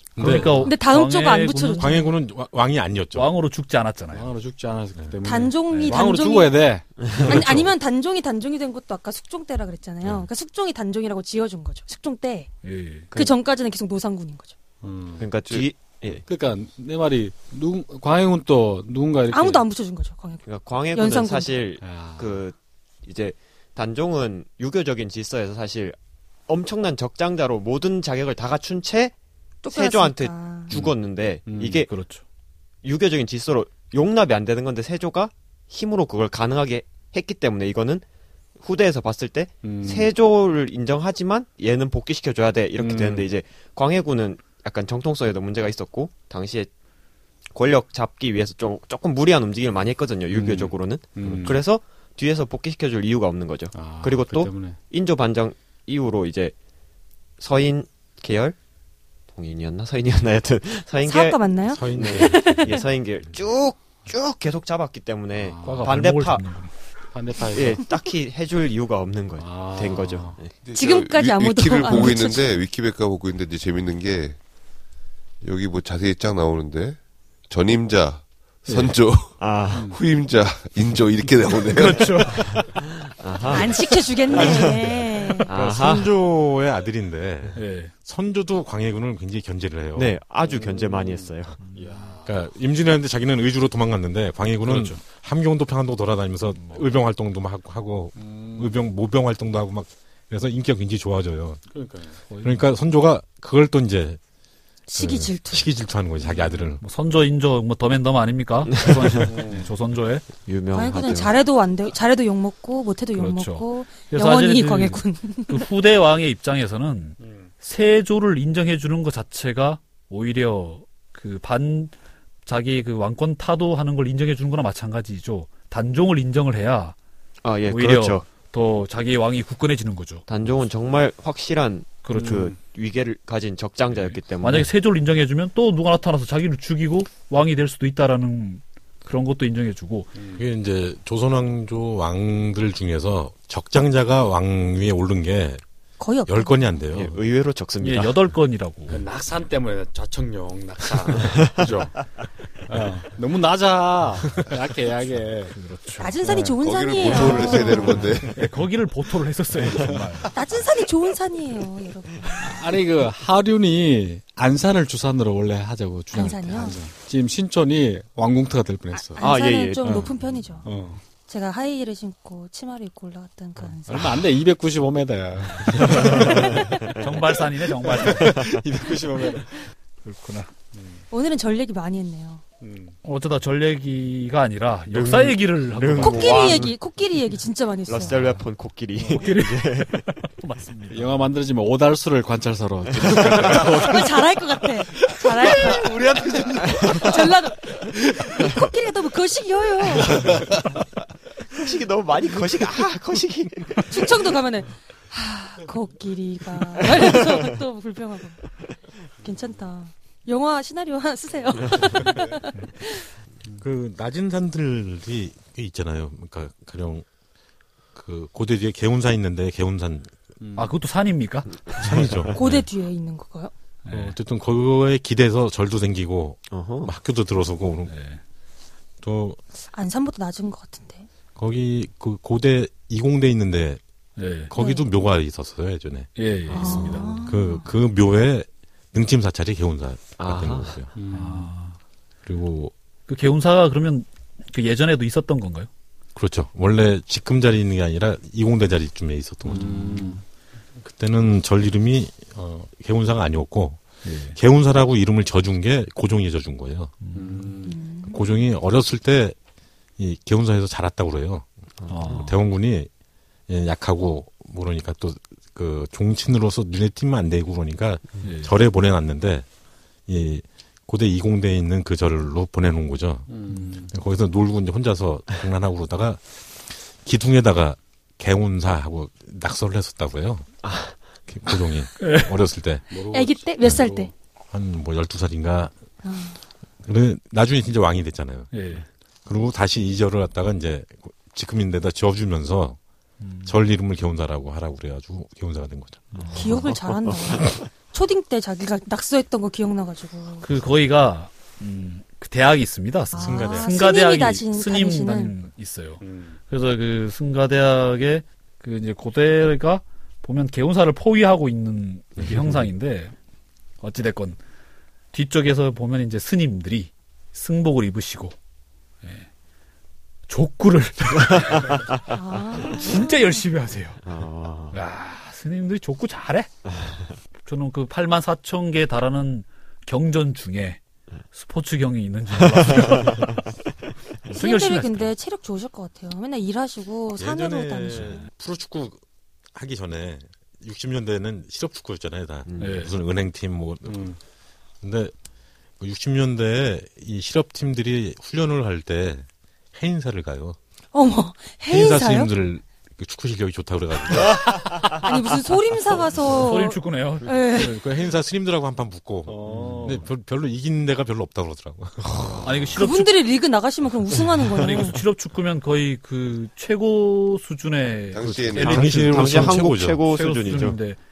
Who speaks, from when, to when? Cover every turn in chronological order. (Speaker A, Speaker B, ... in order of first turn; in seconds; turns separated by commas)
Speaker A: 0.2-0.7, Speaker B: 0.2-2.1, Speaker C: 0.2-0.6, Speaker D: 0.6-2.1, Speaker A: 1.8-3.3, Speaker B: 3.1-4.3, Speaker C: 4.1-7.6, Speaker D: 5.2-6.6, Speaker B: 5.7-6.0, Speaker E: 7.0-7.3, Speaker D: 7.2-12.5, Speaker B: 12.6-13.1, Speaker D: 13.1-14.5, Speaker C: 14.8-15.3, Speaker E: 15.2-16.3, Speaker C: 16.3-19.6, Speaker D: 19.3-21.6, Speaker E: 20.4-26.0, Speaker C: 21.8-22.4, Speaker E: 26.5-29.1, Speaker D: 29.6-30.7, Speaker E: 29.7-31.9, Speaker C: 30.7-31.9, Speaker B: 31.9-32.2, Speaker E: 32.8-38.0, Speaker E: 38.6-46.7, Speaker C: 39.6-40.1, Speaker C: 42.8-43.3, Speaker E: 47.5-56.5, Speaker C: 50.3-51.7, Speaker C: 53.7-54.8, Speaker E: 57.4-58.6, Speaker E: 59.3-66.5, Speaker D: 61.0-62.8, Speaker A: 61.7-62.8, Speaker C: 65.4-66.0, Speaker B: 65.6-66.7, Speaker C: 67.1-67.9, Speaker E: 67.5-70.5, Speaker C: 69.4-70.4, Speaker F: 70.6-74.4, Speaker D: 70.7-72.6, Speaker F: 75.4-82.4, Speaker B: 78.7-79.0, Speaker E: 79.4-80.0, Speaker B: 81.7-82.7, Speaker E: 82.5-84.6, Speaker D: 83.5-85.5, Speaker A: 84.4-84.8, Speaker E: 85.5-86.1, Speaker A: 85.5-90.2, Speaker B: 87.6-87.9, Speaker E: 90.0-91.6, Speaker C: 90.5-92.4, Speaker B: 91.6-92.2, Speaker A: 92.2-101.6, Speaker B: 94.6-95.0, Speaker C: 98.2-98.8, Speaker C: 101.7-102.2, Speaker A: 102.3-104.2, Speaker B: 102.3-102.7, Speaker D: 104.9-105.7, Speaker A: 105.0-106.8, Speaker C: 106.3-106.7, Speaker B: 106.8-110.3, Speaker E: 108.7-109.3, Speaker C: 109.2-109.7, Speaker E: 110.5-111.4, Speaker D: 110.7-115.7, Speaker B: 113.2-121.9, Speaker C: 117.2-117.5, Speaker B: 122.5-127.0, Speaker E: 127.4-128.3, Speaker B: 127.7-130.2, Speaker E: 130.3-134.7, Speaker B: 132.0-132.5, Speaker C: 132.1-132.6, Speaker B: 133.9-140.1, Speaker C: 140.2-140.4, Speaker A: 140.4-145.6, Speaker D: 146.0-146.6, Speaker A: 146.3-147.2, Speaker E: 146.9-148.2, Speaker B: 147.8-149.0, Speaker C: 148.9-151.9, Speaker E: 151.3-151.7, Speaker C: 152.7-155.6, Speaker B: 155.5-156.4, Speaker D: 156.0-158.0, Speaker C: 156.3-156.6, Speaker F: 156.6-158.4, Speaker B: 157.1-160.6, Speaker E: 157.2-157.4, Speaker C: 157.6-158.2, Speaker C: 159.7-160.0, Speaker D: 160.3-162.6, Speaker C: 162.4-169.2, Speaker D: 166.1-166.8, Speaker D: 168.9-170.7, Speaker E: 169.2-169.9, Speaker C: 169.8-171.0, Speaker D: 171.3-174.2, Speaker C: 173.9-177.0, Speaker B: 175.8-176.3, Speaker E: 175.9-176.6, Speaker B: 177.0-178.4, Speaker C: 177.9-179.5, Speaker E: 178.3-178.9, Speaker B: 180.0-180.5, Speaker C: 180.7-181.0, Speaker D: 181.1-182.4, Speaker C: 182.6-182.9, Speaker B: 183.0-186.7, Speaker E: 184.9-186.7, Speaker C: 185.8-186.2, Speaker D: 186.0-188.2, Speaker E: 187.9-190.1, Speaker C: 189.0-189.3, Speaker B: 189.1-191.1, Speaker C: 190.9-194.1, Speaker E: 192.9-193.7, Speaker B: 193.2-193.8, Speaker D: 193.6-195.9, Speaker C: 195.1-197.2, Speaker D: 196.8-197.7, Speaker C: 197.9-198.5, Speaker D: 198.4-200.2, Speaker C: 200.1-200.4, Speaker E: 201.6-204.1, Speaker D: 203.9-208.4, Speaker E: 206.9-207.5, Speaker D: 209.2-213.1, Speaker A: 213.6-217.1, Speaker A: 217.9-220.1, Speaker C: 220.4-220.8, Speaker B: 220.6-221.8, Speaker E: 221.8-222.3, Speaker A: 221.8-222.4, Speaker D: 222.3-223.5, Speaker B: 223.9-224.2, Speaker A: 223.9-227.9, Speaker E: 226.5-226.9, Speaker B: 227.9-228.2, Speaker A: 229.0-229.4, Speaker D: 229.7-231.1, Speaker A: 231.4-233.8, Speaker B: 234.2-234.5, Speaker A: 234.5-236.1, Speaker D: 234.6-234.8, Speaker B: 236.2-237.1, Speaker E: 236.5-237.2, Speaker D: 236.5-237.7, Speaker A: 237.3-240.9, Speaker E: 240.2-240.8, Speaker C: 240.9-241.5, Speaker B: 241.1-241.8, Speaker A: 242.3-242.7, Speaker B: 243.1-245.7, Speaker A: 246.2-250.1, Speaker C: 249.5-250.2, Speaker A: 250.8-253.8, Speaker B: 254.0-254.4, Speaker A: 254.3-256.9, Speaker B: 257.0-257.5, Speaker C: 257.1-257.8, Speaker D: 257.7-258.3, Speaker A: 258.0-259.4, Speaker A: 260.0-261.5, Speaker B: 261.9-262.4, Speaker A: 262.1-262.9, Speaker A: 263.5-269.5, Speaker B: 268.2-268.5, Speaker A: 270.1-276.2, Speaker C: 273.3-273.9, Speaker A: 277.0-280.5, Speaker E: 280.6-281.0, Speaker A: 281.3-282.9, Speaker B: 282.0-282.3, Speaker C: 282.9-284.1, Speaker D: 283.1-284.1, Speaker A: 284.5-285.7, Speaker D: 286.0-286.4, Speaker A: 286.8-288.7, Speaker B: 288.5-288.9, Speaker A: 289.3-292.8, Speaker B: 293.2-293.6, Speaker A: 293.4-296.1, Speaker B: 296.1-296.7, Speaker D: 296.4-300.5, Speaker E: 296.6-297.6, Speaker B: 300.4-313.1, Speaker D: 303.1-305.3, Speaker A: 303.1-303.9, Speaker C: 306.0-306.4, Speaker B: 313.8-314.4, Speaker B: 315.1-318.4, Speaker B: 320.3-321.9, Speaker D: 322.1-323.4, Speaker B: 322.6-324.0, Speaker E: 324.1-324.8, Speaker B: 324.7-326.5, Speaker B: 327.5-330.8, Speaker B: 331.3-333.4, Speaker E: 332.8-333.2, Speaker B: 334.2-335.1, Speaker D: 334.3-338.2, Speaker A: 337.2-339.0, Speaker A: 339.5-344.1, Speaker E: 342.5-342.8, Speaker B: 342.6-342.9, Speaker C: 343.9-344.2, Speaker A: 344.8-345.1, Speaker A: 345.8-350.6, Speaker D: 350.9-352.3, Speaker A: 351.7-354.5, Speaker D: 354.9-357.7, Speaker B: 356.4-357.7, Speaker A: 357.5-362.3, Speaker C: 359.3-360.1, Speaker B: 359.6-359.9, Speaker E: 362.1-362.5, Speaker C: 362.1-362.9, Speaker B: 362.4-363.2, Speaker D: 362.8-365.0, Speaker B: 364.5-369.5, Speaker F: 368.1-369.7, Speaker A: 368.2-370.0, Speaker E: 368.6-370.8, Speaker B: 370.1-371.0